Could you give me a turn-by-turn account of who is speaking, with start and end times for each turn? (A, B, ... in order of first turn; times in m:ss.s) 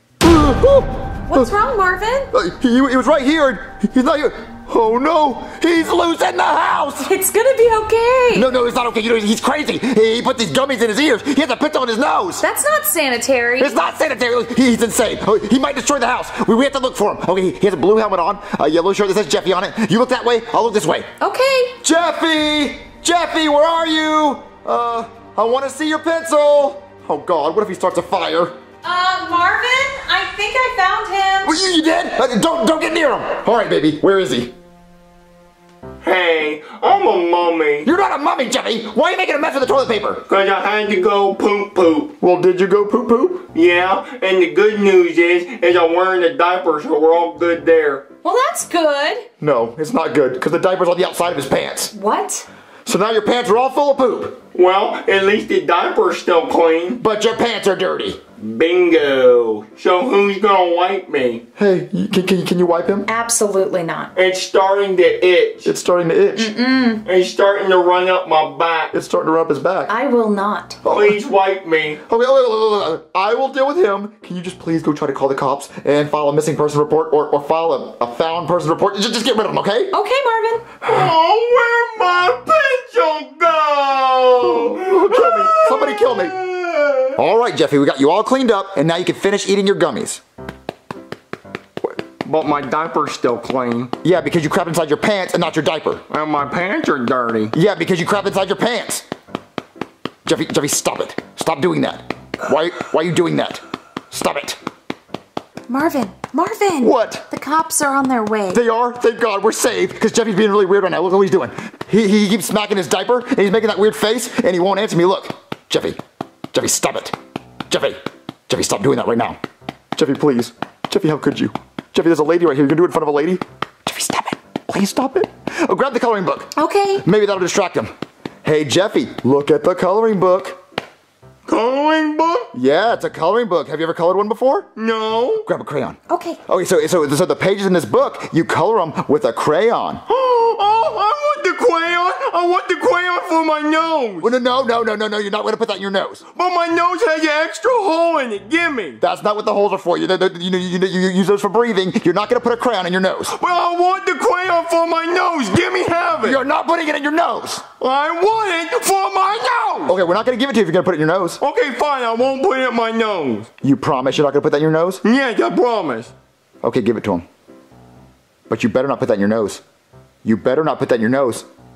0:00.2-0:01.5 A
0:01.3-0:02.3 B
0:02.3-0:07.1 A
0:07.1-0:08.5 B
0:08.3-0:12.4 A
0:12.4-0:13.8 B
0:13.6-0:21.1 A
0:21.2-0:21.8 B
0:21.8-0:28.5 A
0:28.8-0:31.6 B
0:31.4-0:34.5 A
0:36.0-0:37.8 C
0:37.8-0:40.2 A
0:40.3-0:42.1 C
0:42.2-0:43.5 A
0:43.5-0:48.1 C
0:48.2-0:49.3 B
0:49.4-0:51.9 A
0:51.9-0:52.4 B
0:52.8-0:54.4 A
0:54.5-0:57.0 C
0:57.0-0:58.2 A
0:58.4-1:01.4 C
1:01.6-1:03.1 A
1:03.1-1:04.1 B
1:04.1-1:05.7 C
1:05.6-1:06.5 A
1:06.4-1:07.0 B
1:07.0-1:08.9 C
1:08.9-1:09.9 A
1:09.9-1:10.8 B
1:10.8-1:11.2 A
1:10.9-1:12.0 C
1:12.0-1:19.9 A
1:19.9-1:20.7 B
1:20.8-1:27.2 C
1:24.6-1:26.3 A
1:27.2-1:30.2 A
1:32.2-1:33.9 C
1:34.0-1:36.0 A
1:36.1-1:37.5 C
1:37.5-1:39.0 A
1:40.2-1:44.6 A
1:45.7-1:48.6 B
1:46.8-1:47.2 A
1:48.5-1:56.0 A
1:56.5-1:57.2 A
1:57.7-1:59.4 A
1:59.9-2:07.9 A
2:06.6-2:07.0 B
2:08.4-2:10.6 A
2:11.5-2:12.5 C
2:12.5-2:14.7 A
2:14.8-2:15.4 C
2:15.4-2:20.0 A
2:16.1-2:16.4 B
2:20.1-2:24.3 C
2:24.2-2:26.2 A
2:26.3-2:29.0 C
2:29.0-2:33.4 A
2:33.3-2:36.4 C
2:36.2-2:37.6 A
2:37.8-2:39.9 C
2:39.9-2:41.4 A
2:41.4-2:43.5 C
2:43.6-2:45.0 A
2:45.0-2:46.1 C
2:46.6-2:47.2 A
2:48.5-2:49.6 A
2:50.2-2:51.4 A